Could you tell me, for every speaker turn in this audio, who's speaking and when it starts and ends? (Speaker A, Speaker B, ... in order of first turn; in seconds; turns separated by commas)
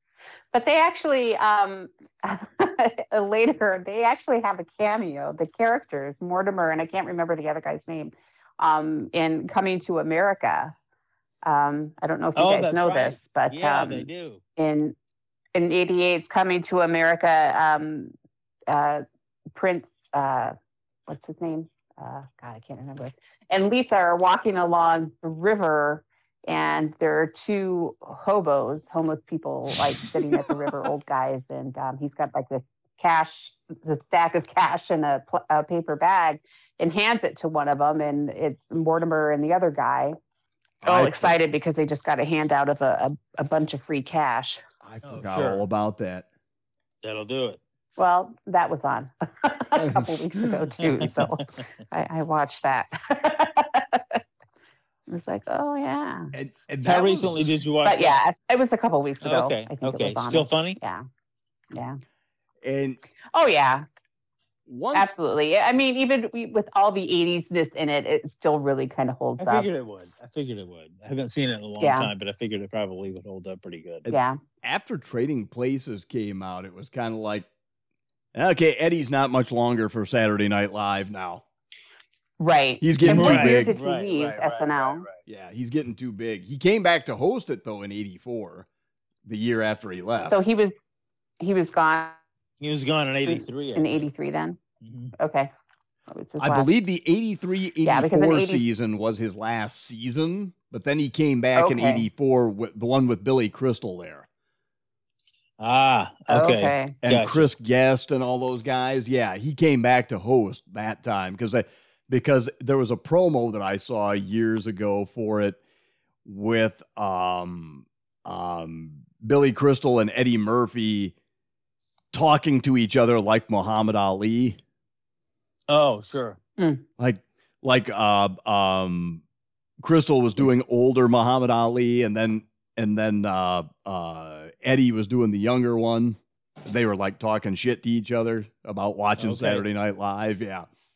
Speaker A: 0.5-10.7, Speaker A: 11.4-14.9, Speaker B: 12.3-14.4, Speaker A: 15.5-18.1, Speaker A: 18.7-19.0, Speaker A: 19.5-20.5, Speaker A: 21.1-40.2, Speaker C: 40.8-41.3, Speaker A: 40.8-44.6, Speaker C: 44.8-46.2, Speaker B: 45.0-45.6, Speaker B: 47.0-47.6, Speaker A: 48.0-54.2, Speaker C: 49.8-50.1, Speaker B: 50.8-51.3, Speaker A: 55.1-56.3, Speaker C: 56.3-57.5, Speaker B: 56.8-58.2, Speaker A: 57.8-61.0, Speaker B: 59.2-60.8, Speaker A: 61.7-62.0, Speaker C: 62.6-63.0, Speaker A: 63.3-63.8, Speaker C: 64.7-65.1, Speaker A: 64.9-69.7, Speaker B: 69.4-74.1, Speaker A: 71.8-72.1, Speaker C: 74.1-77.5, Speaker A: 74.1-74.4, Speaker C: 78.3-81.4, Speaker A: 82.4-85.0, Speaker C: 82.8-83.8, Speaker B: 83.0-85.2, Speaker C: 85.2-88.7, Speaker C: 89.2-90.3, Speaker A: 90.3-90.7, Speaker A: 91.4-92.2, Speaker B: 92.6-94.0, Speaker A: 93.3-94.6, Speaker B: 94.8-95.1, Speaker A: 95.2-95.5, Speaker A: 96.1-96.7, Speaker C: 96.4-104.3, Speaker A: 97.8-98.6, Speaker A: 101.5-102.1, Speaker B: 105.6-107.5, Speaker A: 106.3-106.9, Speaker C: 107.0-115.6, Speaker C: 116.2-121.1, Speaker C: 122.1-124.6, Speaker B: 125.7-126.4, Speaker A: 126.6-126.8, Speaker C: 127.0-129.2, Speaker C: 129.8-140.7, Speaker B: 139.2-139.7